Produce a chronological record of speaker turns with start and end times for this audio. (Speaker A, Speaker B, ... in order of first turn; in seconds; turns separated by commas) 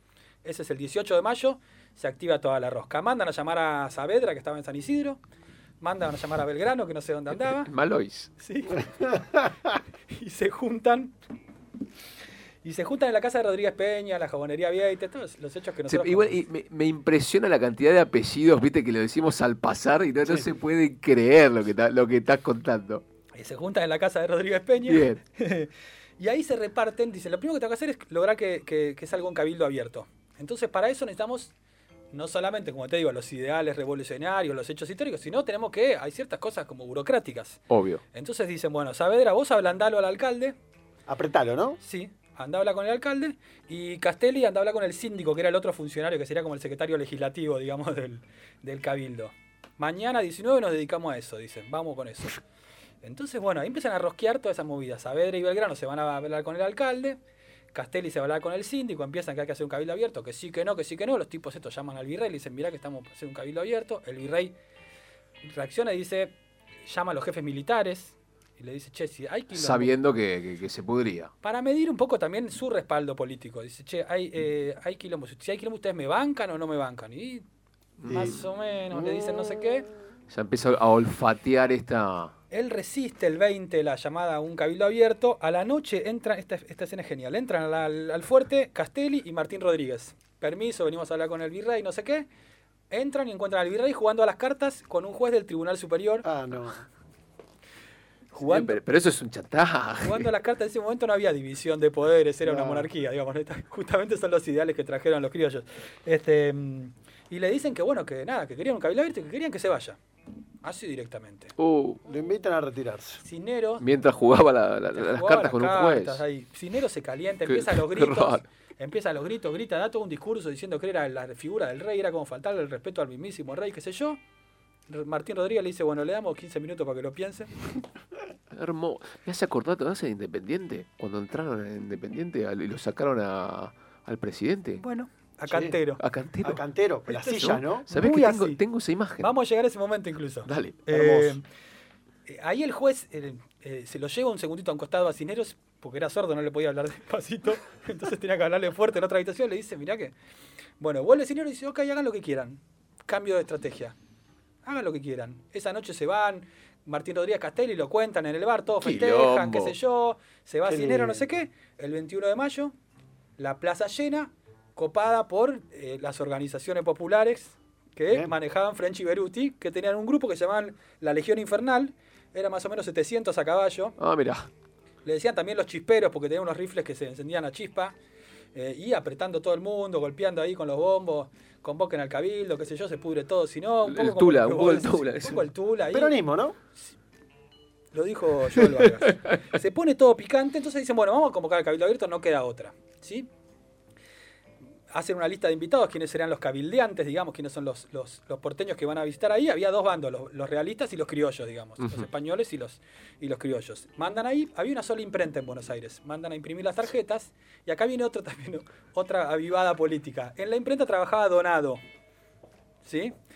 Speaker A: 0.4-5.2, Speaker A: 5.8-7.7, Speaker B: 7.6-8.3, Speaker A: 8.4-9.1, Speaker C: 9.0-9.4, Speaker A: 10.1-11.1, Speaker A: 12.6-16.4, Speaker B: 15.9-23.0, Speaker A: 23.3-31.5, Speaker B: 24.9-25.2, Speaker A: 32.1-37.6, Speaker B: 37.7-38.0, Speaker A: 38.1-40.5, Speaker C: 41.1-41.8, Speaker A: 41.8-52.4, Speaker A: 53.0-57.2, Speaker A: 57.7-64.5, Speaker A: 65.4-69.9, Speaker B: 69.5-71.3, Speaker A: 71.4-77.4, Speaker B: 78.0-78.4, Speaker A: 78.1-79.9, Speaker C: 78.1-78.4, Speaker C: 78.9-79.7, Speaker B: 80.3-82.3, Speaker A: 82.5-92.3, Speaker A: 92.9-96.2, Speaker C: 96.2-96.8, Speaker A: 98.3-98.8, Speaker B: 98.4-100.3, Speaker A: 100.0-110.0, Speaker C: 102.4-102.9, Speaker A: 110.6-111.5, Speaker B: 111.6-112.0, Speaker C: 112.0-113.2, Speaker A: 113.2-113.8, Speaker B: 113.8-116.2, Speaker A: 114.9-124.2, Speaker B: 117.5-118.5, Speaker A: 124.9-127.5, Speaker B: 128.5-134.8, Speaker A: 134.8-136.0, Speaker C: 135.5-135.8, Speaker B: 136.0-136.6, Speaker C: 136.4-137.8, Speaker A: 137.1-138.6, Speaker B: 137.3-139.3, Speaker A: 139.2-141.4, Speaker B: 140.4-141.3, Speaker A: 142.3-150.1, Speaker A: 150.8-153.9, Speaker A: 154.6-162.7, Speaker B: 158.8-159.8, Speaker C: 160.7-161.3, Speaker A: 163.4-174.0, Speaker B: 174.0-174.5, Speaker A: 175.0-177.9, Speaker A: 178.5-186.2, Speaker B: 183.8-185.4, Speaker C: 185.9-186.6, Speaker A: 187.9-193.3, Speaker B: 188.6-189.4, Speaker A: 194.9-211.8, Speaker B: 201.8-202.1, Speaker A: 212.8-213.1